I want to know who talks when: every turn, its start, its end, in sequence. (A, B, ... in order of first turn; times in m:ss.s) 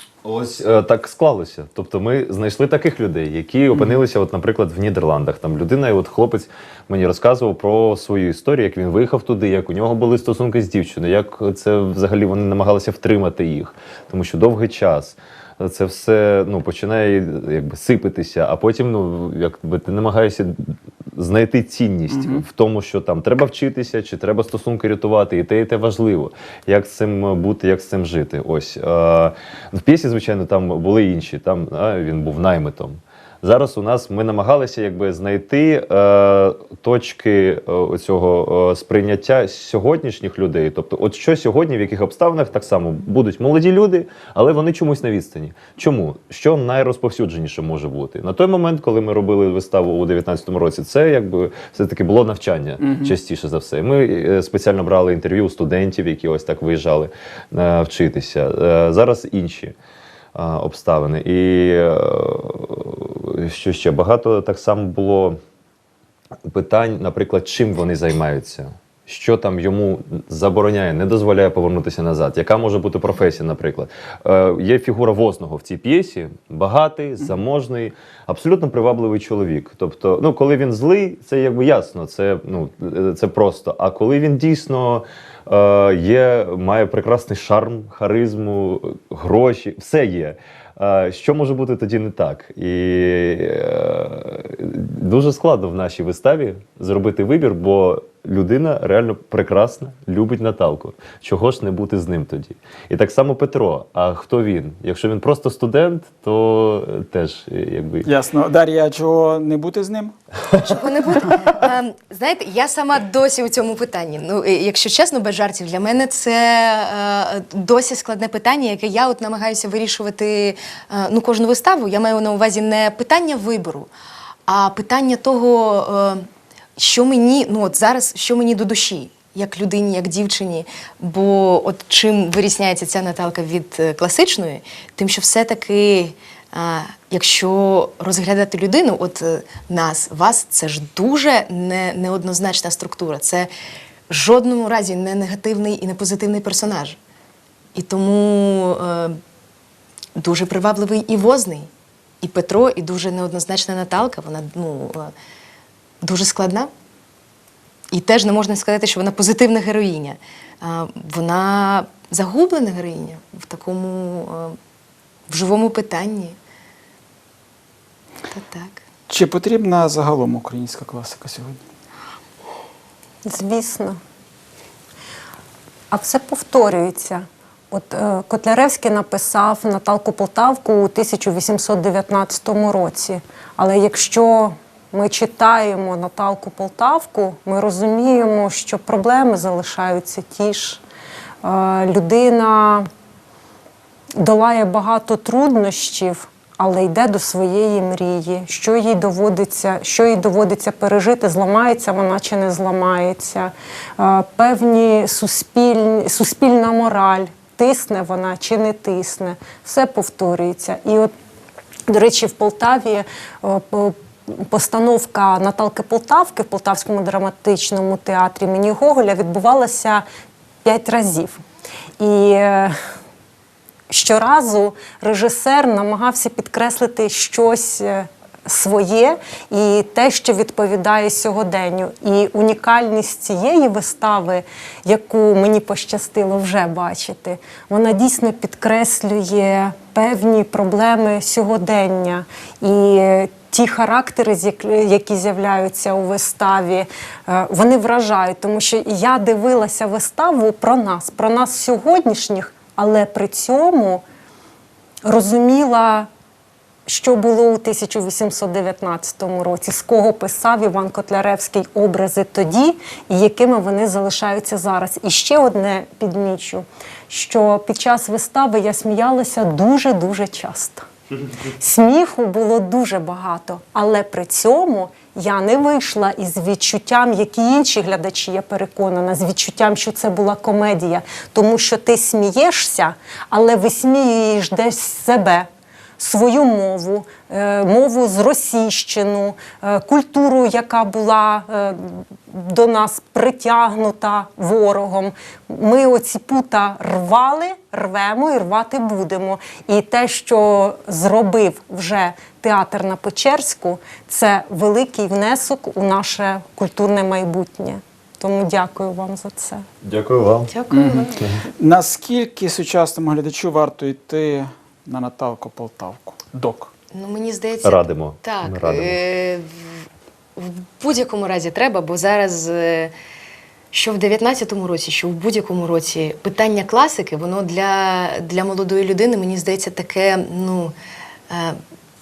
0:00.2-0:59.8 A
0:22.1-0:22.4 B
0:52.8-0:53.2 B
1:00.3-1:05.4 A
1:06.5-1:48.1 A
1:48.0-1:50.1 B
1:50.6-2:03.9 C
2:04.5-2:06.2 C
2:06.8-2:23.5 C
2:24.1-2:27.0 C
2:27.8-2:29.2 C
2:30.2-2:31.7 C
2:32.2-2:35.1 C
2:36.0-2:36.7 C
2:37.9-2:44.6 C
2:45.3-2:46.4 C
2:48.3-2:48.8 C
2:49.1-2:51.6 B
2:53.2-2:54.0 D
2:55.9-3:10.8 D
3:11.4-3:12.9 D
3:14.2-3:31.1 D
3:31.9-3:40.0 D
3:40.6-3:41.4 D
3:42.0-3:42.8 D
3:43.9-4:14.0 D
4:15.0-4:16.1 D
4:16.8-4:30.8 D
4:31.4-4:45.5 D
4:46.0-5:09.6 D
5:09.8-5:10.5 A
5:10.5-5:11.2 C
5:10.7-5:16.7 B
5:11.2-5:11.4 A
5:16.9-5:19.7 C
5:17.6-5:19.0 A
5:20.4-5:22.9 C
5:23.7-5:30.7 C
5:31.3-5:31.6 C